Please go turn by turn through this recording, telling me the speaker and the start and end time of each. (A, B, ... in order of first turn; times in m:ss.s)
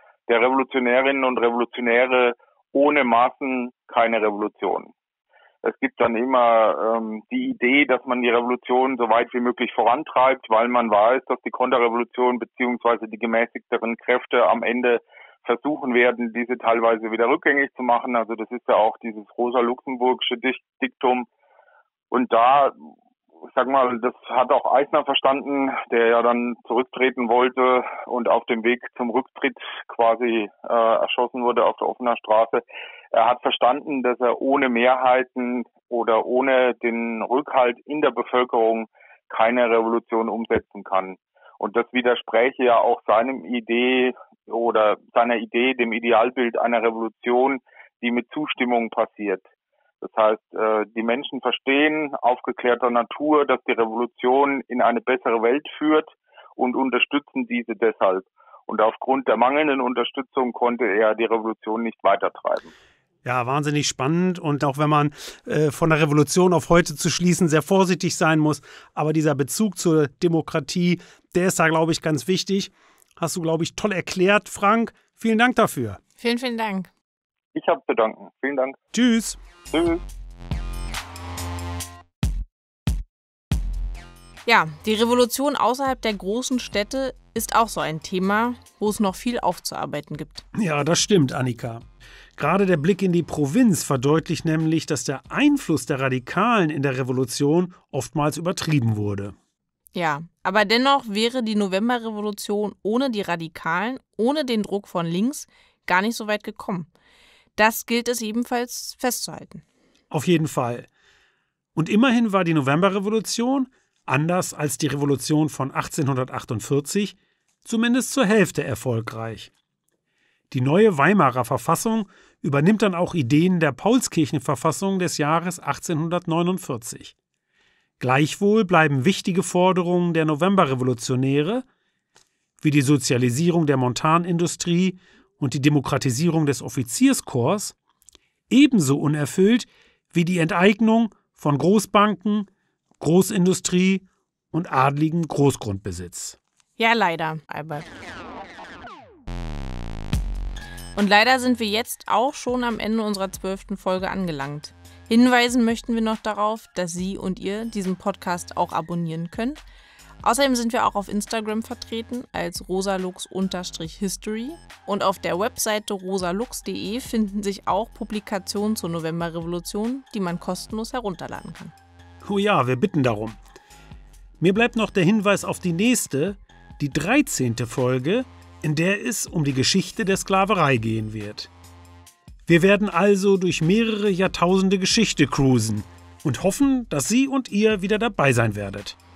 0:00.3-0:04.9 A
0:05.6-0:21.3 A
0:22.1-0:22.8 A
0:23.5-0:49.4 A
0:50.0-1:02.7 A
1:03.2-1:16.0 B
1:16.2-1:16.9 C
1:17.5-1:18.8 A
1:18.9-1:19.4 B
1:19.7-1:20.0 A
1:24.4-1:30.4 C
1:30.6-1:31.8 B
1:32.4-1:39.3 B
1:39.9-1:46.9 C
1:47.6-1:49.6 C
1:50.1-1:50.9 B
1:51.7-1:59.5 B
2:00.5-2:07.1 B
2:08.0-2:11.6 B
2:12.6-2:17.8 B
2:18.5-2:22.5 B
2:23.0-2:26.4 B
2:26.8-2:27.9 C
2:31.0-2:39.6 C
2:40.2-2:51.7 C
2:52.2-2:53.4 B
2:54.4-3:01.5 B
3:02.5-3:09.0 B